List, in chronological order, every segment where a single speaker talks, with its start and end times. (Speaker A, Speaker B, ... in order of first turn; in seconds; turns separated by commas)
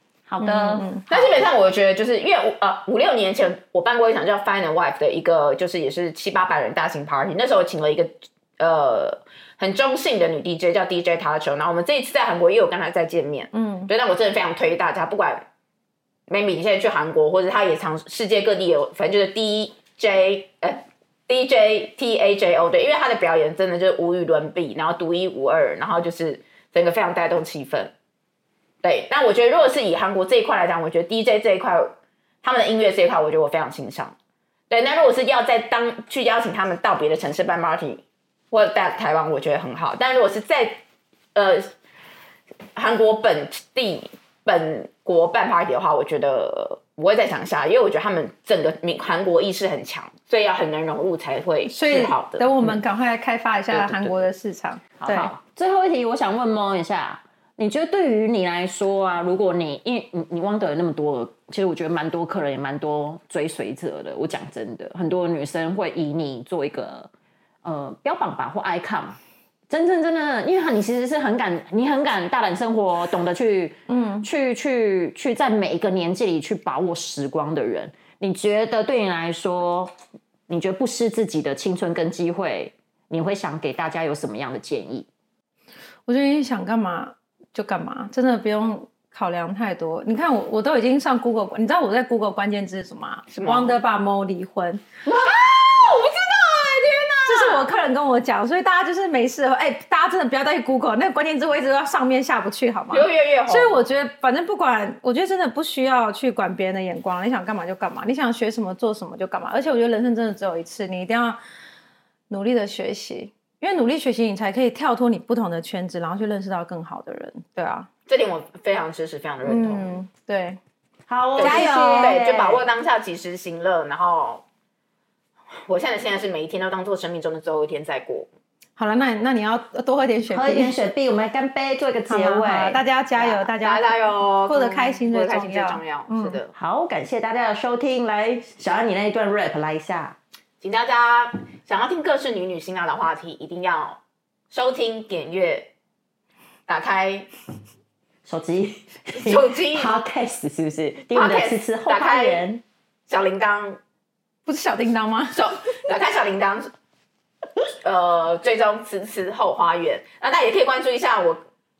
Speaker A: 0.3-0.9, Speaker B: 0.4-1.2, Speaker C: 1.1-15.4, Speaker B: 13.5-13.9, Speaker C: 16.3-27.9, Speaker C: 28.8-34.1, Speaker C: 34.7-40.8, Speaker C: 41.3-41.7, Speaker C: 42.8-52.8, Speaker B: 51.7-55.3, Speaker C: 53.7-54.2, Speaker A: 55.0-67.1, Speaker A: 67.6-69.2, Speaker A: 69.7-79.9, Speaker B: 73.9-74.2, Speaker A: 80.5-85.1, Speaker B: 86.0-94.8, Speaker C: 93.3-93.8, Speaker C: 95.0-97.7, Speaker B: 97.2-111.4, Speaker C: 102.9-103.8, Speaker B: 112.3-117.9, Speaker C: 118.1-119.9, Speaker B: 119.4-120.6, Speaker A: 121.1-122.6, Speaker C: 121.4-124.4, Speaker B: 121.4-122.2, Speaker C: 125.7-128.3, Speaker B: 128.8-130.7, Speaker A: 130.3-132.8, Speaker B: 132.1-136.4, Speaker C: 133.2-136.5, Speaker A: 136.5-140.2, Speaker C: 140.6-144.0, Speaker C: 144.5-145.7, Speaker C: 146.7-147.3, Speaker A: 148.2-152.6, Speaker C: 149.1-150.0, Speaker C: 151.1-152.4, Speaker C: 153.1-153.8, Speaker B: 154.4-155.4, Speaker C: 155.3-156.7, Speaker C: 157.8-161.4